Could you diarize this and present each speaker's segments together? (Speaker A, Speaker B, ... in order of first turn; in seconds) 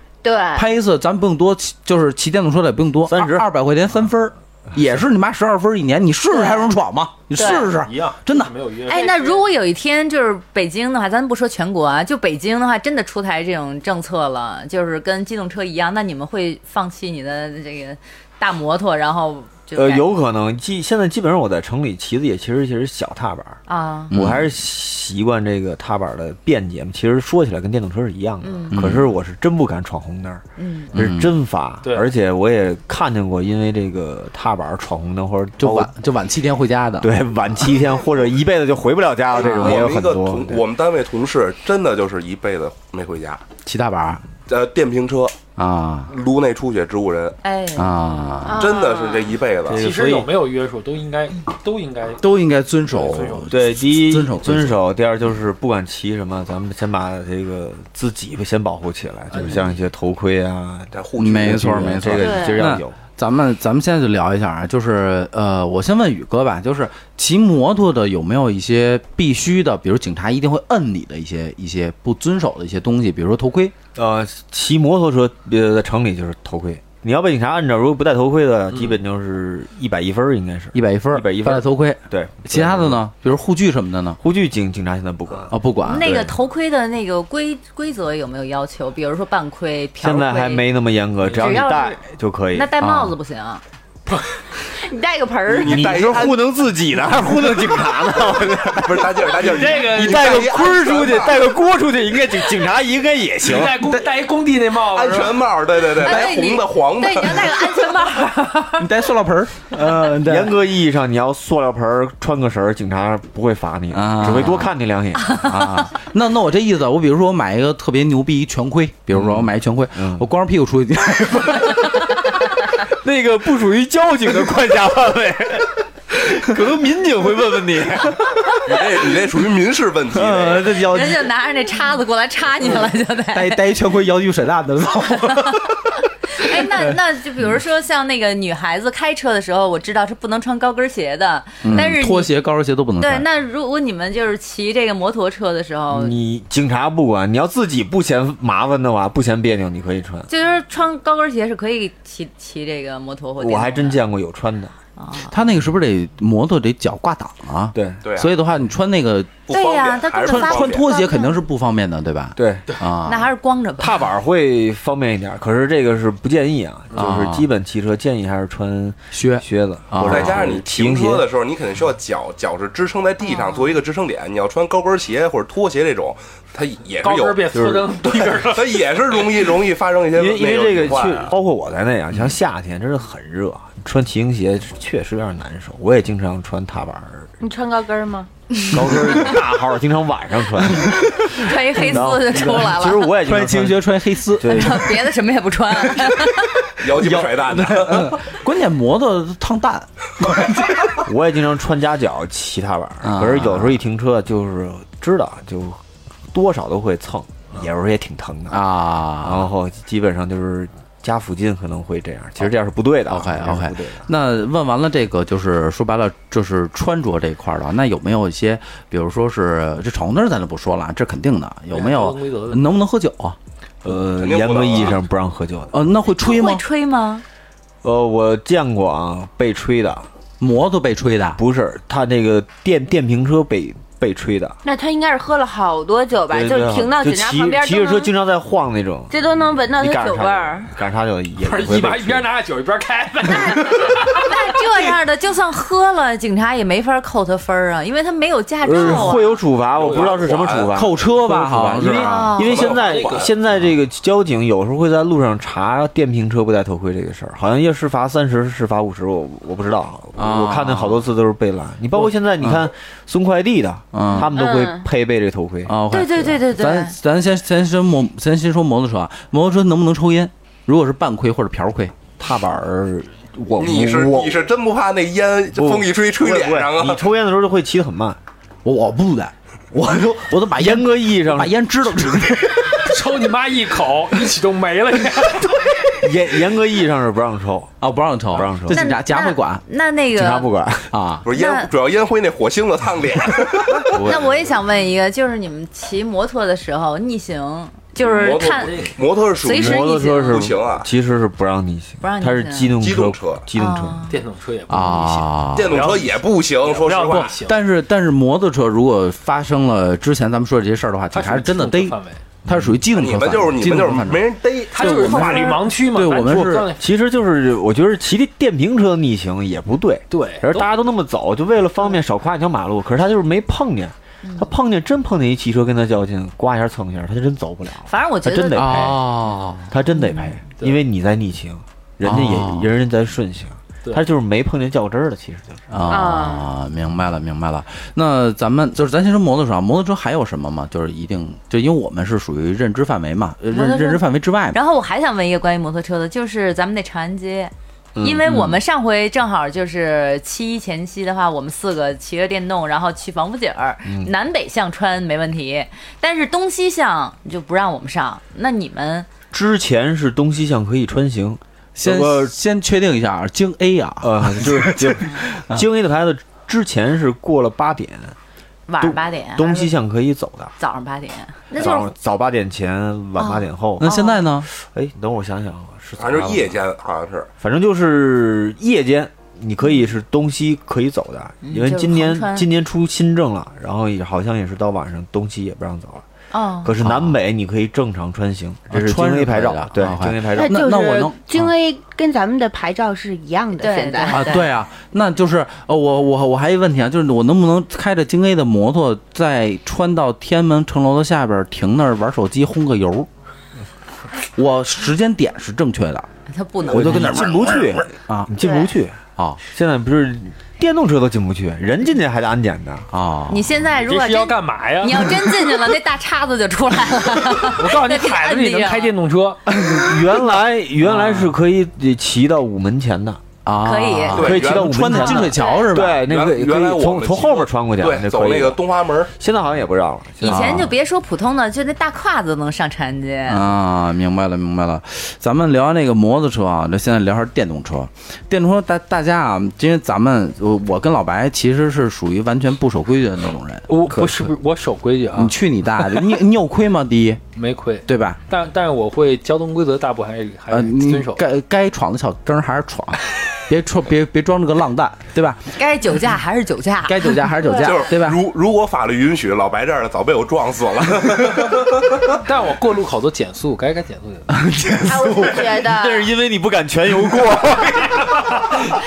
Speaker A: 0.2-0.7, 7.4-7.7, 48.4-49.4, 62.2-62.7, 94.6-96.0, 187.4-188.3, 234.6-238.1, 239.1-240.7, 264.3-264.9, 335.9-336.5, 390.3-394.3, 425.4-425.7, 457.4-457.7, 464.8-466.1
Speaker B: 0.6-8.5, 24.1-24.5, 28.7-29.1, 30.9-31.3, 35.6-37.1, 39.5-39.7, 43.6-44.2, 45.6-46.1, 47.8-48.7, 52.2-54.8, 61.2-73.8, 80.7-84.2, 85.5-86.3, 92.8-93.2, 108.8-110.6, 113.9-114.7, 115.4-122.4, 130.1-131.3, 133.3-135.9, 136.4-136.9, 141.6-143.3, 155.3-159.4, 160.2-163.3, 166.9-167.5, 169.1-170.6, 190.8-191.3, 192.3-192.7, 193.2-195.0, 195.9-196.2, 196.8-200.9, 203.0-203.8, 208.5-209.5, 213.1-223.4, 225.7-226.6, 230.4-231.4, 250.7-252.4, 260.1-261.1, 262.4-262.7, 263.9-264.4, 265.7-272.0, 278.6-283.0, 287.8-289.6, 290.9-291.3, 304.7-305.9, 307.1-316.7, 328.5-329.7, 332.0-332.7, 335.7-344.6, 361.8-365.6, 373.8-374.5, 386.8-387.2, 388.7-391.5, 394.1-403.1, 404.4-406.1, 406.7-408.3, 412.9-413.5, 419.6-420.0, 423.4-426.1, 430.2-430.7, 433.3-444.3, 445.1-447.2, 447.9-448.2, 450.5-455.5, 456.8-458.2, 464.3-465.5
Speaker C: 3.1-3.5, 19.8-35.9, 37.0-40.6, 49.7-50.3, 53.5-63.0, 74.0-83.0, 84.2-85.5, 90.0-92.8, 95.5-99.3, 99.9-103.8, 109.8-115.5, 119.1-120.3, 122.8-128.6, 145.9-150.3, 153.4-154.7, 157.7-158.0, 162.4-162.7, 163.8-171.3, 177.5-178.2, 180.2-187.3, 188.7-195.0, 201.0-208.6, 209.2-214.1, 223.8-225.8, 227.8-230.1, 231.4-234.6, 236.3-242.3, 248.6-265.8, 272.2-274.5, 275.6-278.2, 280.6-281.5, 285.9-287.8, 288.3-288.9, 290.1-290.9, 293.9-294.5, 299.5-304.1, 312.5-312.8, 316.8-329.1, 329.7-335.6, 348.0-348.6, 353.9-354.1, 359.3-362.3, 364.0-368.2, 368.8-370.5, 371.6-373.9, 374.4-376.6, 377.4-386.1, 386.6-390.7, 406.7-412.9, 419.6-423.2, 424.1-428.6, 429.2-430.7, 465.1-468.6
Speaker D: 7.4-9.4, 31.8-32.1, 49.8-52.2, 52.9-53.6, 59.3-59.7, 78.7-79.0, 91.3-91.7, 99.3-100.4, 103.4-105.5, 177.0-179.2, 221.7-222.7, 241.4-245.0, 252.8-253.3, 282.8-285.6, 298.2-298.9, 304.1-307.6, 311.1-312.3, 314.7-316.9, 320.1-320.7, 413.8-415.5, 417.3-419.4, 420.9-421.2, 443.7-445.4, 447.4-451.2, 462.1-464.3
Speaker E: 8.9-20.1, 23.7-24.1, 28.4-28.8, 30.6-30.9, 47.4-47.9, 85.8-90.7, 91.3-92.0, 92.5-93.6, 105.9-108.9, 130.8-133.6, 135.2-135.7, 136.3-142.3, 143.0-146.2, 150.3-154.0, 155.0-155.3, 159.5-161.4, 163.1-164.1, 173.2-173.7, 191.2-193.2, 194.5-196.6, 226.2-227.2, 244.1-249.4, 251.8-252.7, 265.9-266.9, 288.7-290.5, 291.3-291.7, 294.0-298.8, 299.4-300.5, 302.0-302.8, 303.6-304.2, 327.9-328.8, 329.9-330.3, 343.5-359.1, 368.7-369.7, 370.6-371.9, 373.2-374.2, 381.4-382.5, 386.3-386.7, 393.6-394.5, 406.3-407.3, 408.4-408.7, 413.3-418.9, 423.6-425.3, 430.2-433.4, 455.5-457.2
Speaker F: 39.4-43.4, 44.5-45.4, 46.1-47.4, 48.6-49.9, 60.9-62.2, 95.5-96.5, 98.8-101.5, 104.9-107.7, 128.7-130.8, 158.0-158.3, 159.5-160.9, 170.1-177.5, 178.5-181.4, 196.8-198.2, 224.2-225.0, 249.7-250.8, 252.4-253.3, 273.6-277.1, 291.2-294.0, 298.0-300.9, 302.8-303.4, 305.6-307.4, 312.9-315.6, 376.0-377.3, 424.1-425.2, 426.1-429.1, 457.5-462.1